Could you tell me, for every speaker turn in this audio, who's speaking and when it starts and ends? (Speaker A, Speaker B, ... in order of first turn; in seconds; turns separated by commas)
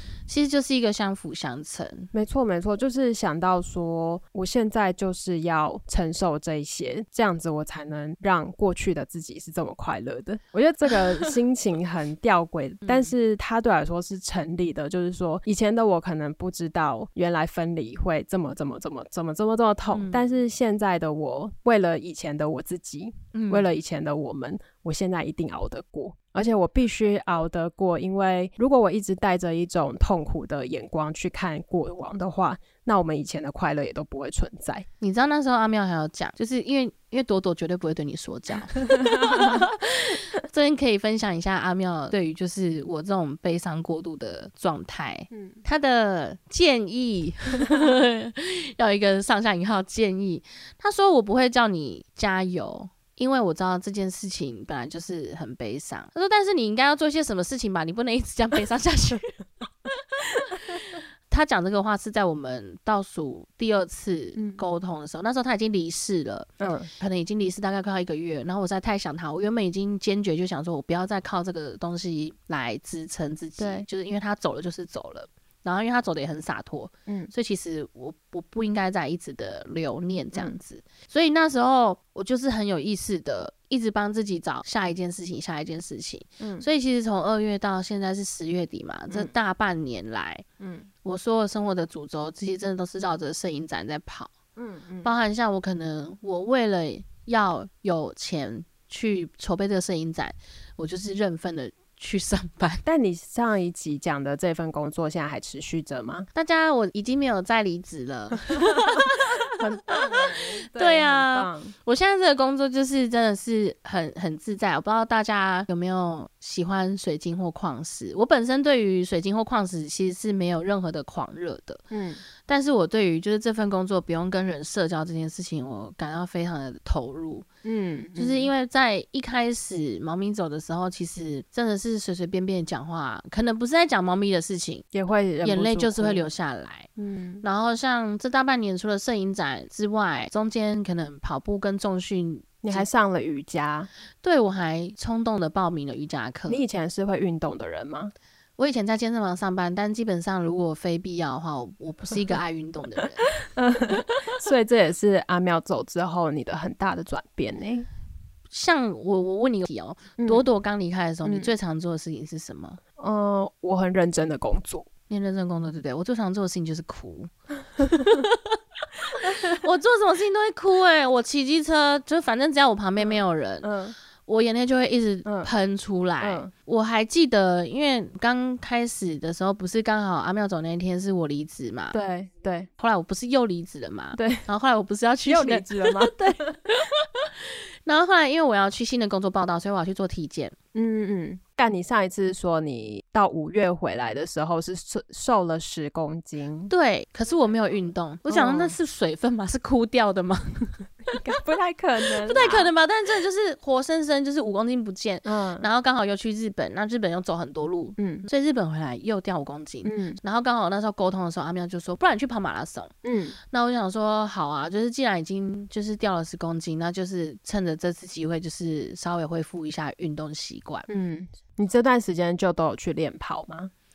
Speaker A: 0.3-2.1, Speaker B: 2.1-34.9, Speaker A: 10.9-11.3, Speaker A: 12.8-13.1, Speaker A: 19.9-20.3, Speaker A: 23.3-23.7, Speaker A: 35.0-90.4, Speaker B: 39.0-39.6, Speaker B: 45.3-45.6, Speaker B: 64.3-64.6, Speaker B: 66.6-66.9, Speaker B: 73.6-73.8, Speaker B: 86.4-86.7, Speaker B: 90.6-90.9, Speaker A: 91.0-94.3, Speaker B: 94.5-95.1, Speaker A: 95.0-102.8, Speaker B: 102.8-106.3, Speaker A: 106.3-121.8, Speaker B: 108.7-111.7, Speaker B: 121.9-122.2, Speaker A: 122.5-127.5, Speaker B: 127.6-128.5, Speaker A: 128.2-134.8, Speaker B: 134.9-136.2, Speaker A: 135.4-136.9, Speaker B: 137.0-137.4, Speaker A: 137.4-142.8, Speaker B: 142.6-143.9, Speaker A: 144.2-146.6, Speaker B: 146.5-148.1, Speaker A: 148.6-153.3, Speaker B: 153.4-157.9, Speaker A: 158.5-162.8, Speaker B: 160.2-160.4, Speaker B: 161.2-161.5, Speaker B: 163.0-164.9, Speaker A: 165.1-168.6, Speaker A: 169.1-173.7, Speaker B: 173.0-173.9, Speaker A: 174.2-181.9, Speaker B: 175.2-175.5, Speaker B: 176.2-176.5, Speaker B: 181.9-182.7, Speaker A: 182.8-190.6, Speaker B: 184.1-184.5, Speaker B: 185.2-186.2, Speaker B: 190.7-196.7, Speaker A: 196.7-200.8, Speaker B: 198.3-198.8, Speaker B: 201.1-202.7, Speaker A: 202.2-212.9, Speaker B: 205.2-205.7, Speaker B: 208.0-208.3, Speaker B: 209.8-210.2, Speaker B: 213.0-213.4, Speaker A: 213.5-220.8, Speaker B: 220.9-223.7